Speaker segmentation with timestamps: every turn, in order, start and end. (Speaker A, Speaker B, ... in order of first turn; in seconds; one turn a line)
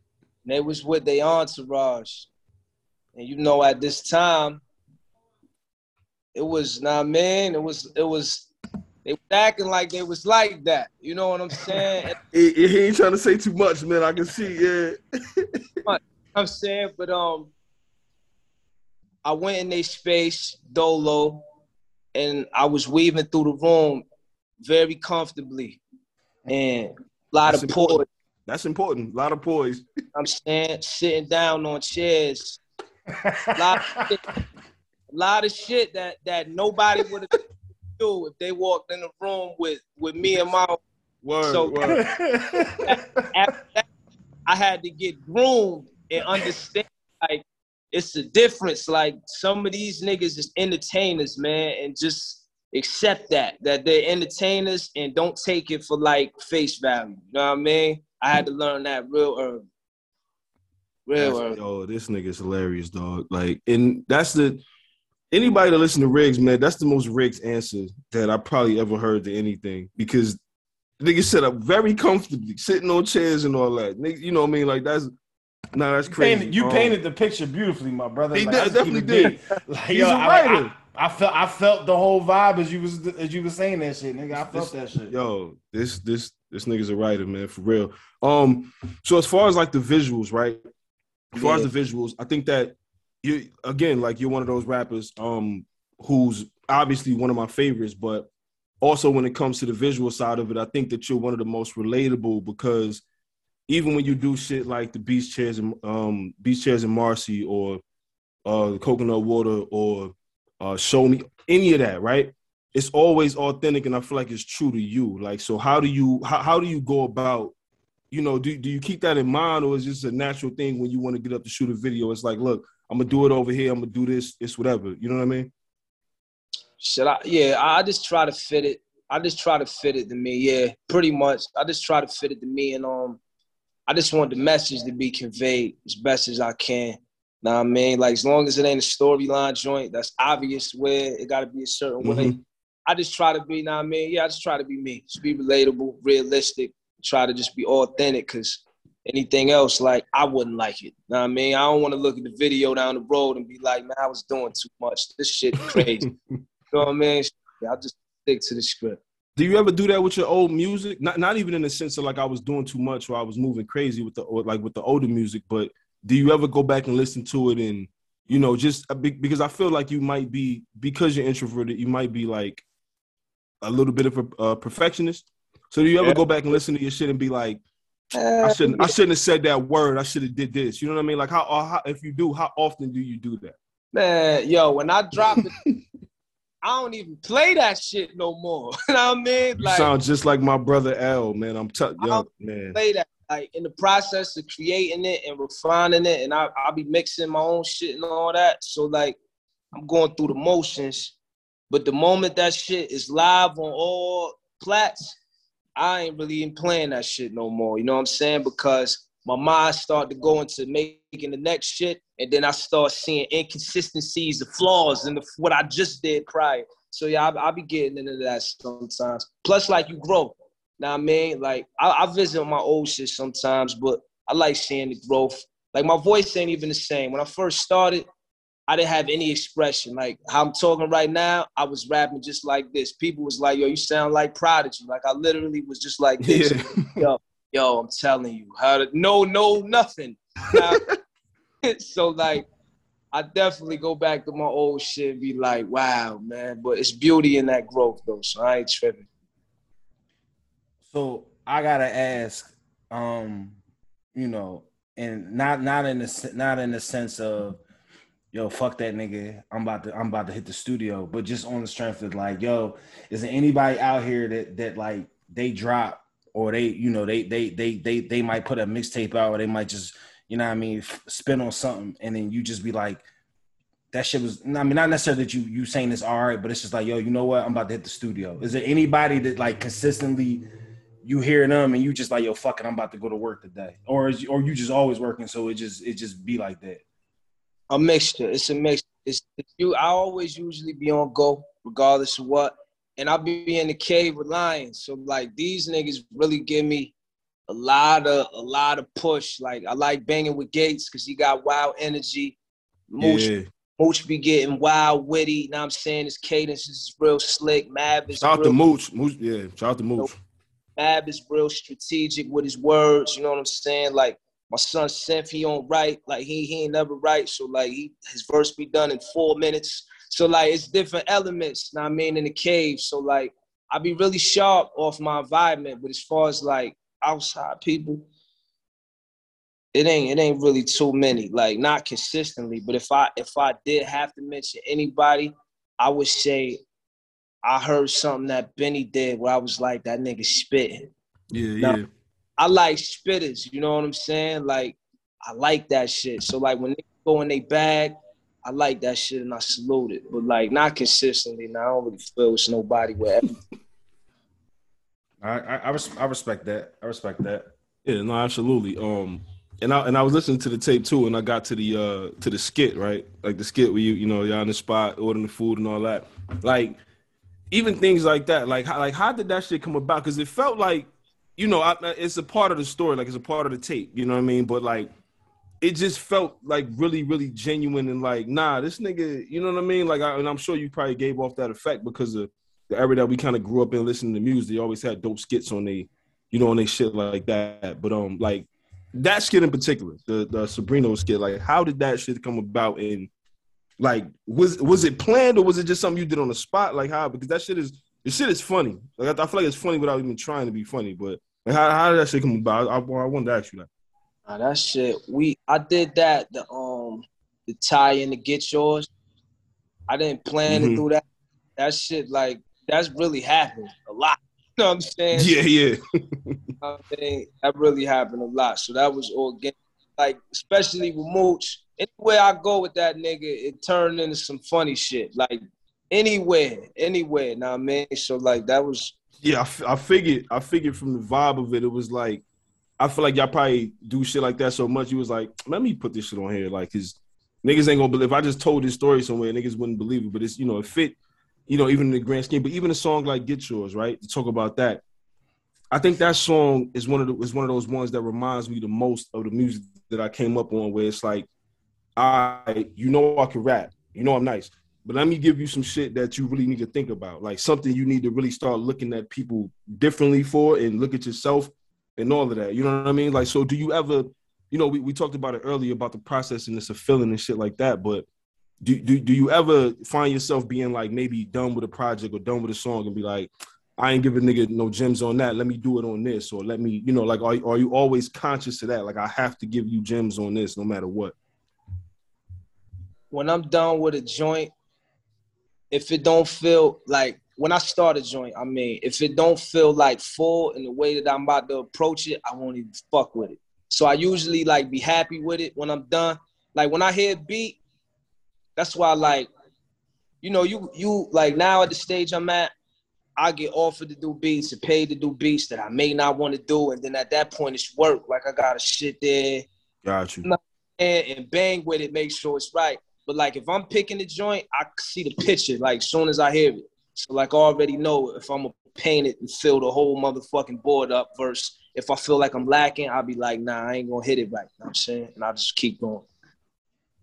Speaker A: 0.5-2.3
Speaker A: 3.1-4.6
Speaker A: 6.3-8.5
Speaker A: 9.1-12.1
Speaker B: 12.2-15.8
Speaker A: 15.9-17.5
Speaker A: 19.2-21.4
Speaker A: 22.1-24.1
Speaker A: 24.6-25.8
Speaker A: 26.5-28.1
Speaker B: 27.5-29.8
Speaker A: 30.1-32.6
Speaker C: 33.1-34.1
Speaker A: 33.6-34.2
Speaker A: 35.1-37.3
Speaker A: 38.0-40.8
Speaker B: 41.2-42.0
Speaker A: 41.4-42.0
Speaker C: 41.9-42.8
Speaker A: 42.9-43.9
Speaker A: 44.5-59.6
Speaker A: 61.1-61.6
Speaker B: 61.2-64.6
Speaker B: 65.3-70.4
Speaker B: 71.0-75.1
Speaker B: 75.7-77.0
Speaker C: 76.1-85.1
Speaker B: 78.3-79.4
Speaker B: 79.9-80.7
Speaker B: 84.4-90.7
Speaker A: 91.3-91.7
Speaker B: 91.3-98.3
Speaker B: 98.8-103.0
Speaker B: 103.7-107.8
Speaker B: 108.5-117.5
Speaker B: 118.1-125.5
Speaker A: 126.8-133.2
Speaker A: 133.9-142.3
Speaker B: 142.0-142.4
Speaker A: 142.9-156.1
Speaker B: 155.8-156.1
Speaker A: 156.7-159.0
Speaker B: 159.4-172.6
Speaker B: 173.6-177.6
Speaker A: 178.1-178.9
Speaker B: 178.4-183.6
Speaker A: 183.9-185.5
Speaker B: 185.4-185.7
Speaker A: 186.6-189.9
Speaker B: 189.6-192.8
Speaker A: 192.0-199.2
Speaker A: 199.7-201.2
Speaker A: 201.7-205.2
Speaker A: 205.8-228.1
Speaker A: 228.7-240.8
Speaker B: 236.2-237.1
Speaker A: 241.7-242.5
Speaker A: 243.1-249.1
Speaker C: 250.9-253.6
Speaker C: 254.2-257.6
Speaker C: 258.3-273.0
Speaker C: 273.9-280.4
Speaker C: 281.0-286.8
Speaker A: 287.7-296.9
Speaker A: 297.5-302.4
Speaker A: 302.9-308.6
Speaker B: 303.0-303.5
Speaker B: 308.2-310.2
Speaker A: 310.8-328.1
Speaker A: 329.7-336.6
Speaker A: 337.4-340.9
Speaker B: 341.3-341.9
Speaker A: 342.4-347.9
Speaker A: 348.4-353.3
Speaker C: 355.2-357.5
Speaker B: 357.9-366.8
Speaker B: 367.5-374.9
Speaker B: 375.6-393.1
Speaker B: 393.8-403.7
Speaker A: 404.3-408.9
Speaker A: 409.9-411.1
Speaker B: 410.5-410.8
Speaker A: 411.6-415.3
Speaker B: 415.1-416.4
Speaker A: 416.6-428.9
Speaker B: 429.2-432.2
Speaker B: 432.8-441.0
Speaker B: 441.5-444.8
Speaker B: 445.7-451.3
Speaker B: 452.0-468.1
Speaker B: 468.6-481.1
Speaker A: 483.1-484.5
Speaker A: 485.7-497.6
Speaker A: 498.6-499.3
Speaker A: 500.2-502.5
Speaker A: 503.2-509.5
Speaker B: 509.8-510.3
Speaker A: 510.2-526.1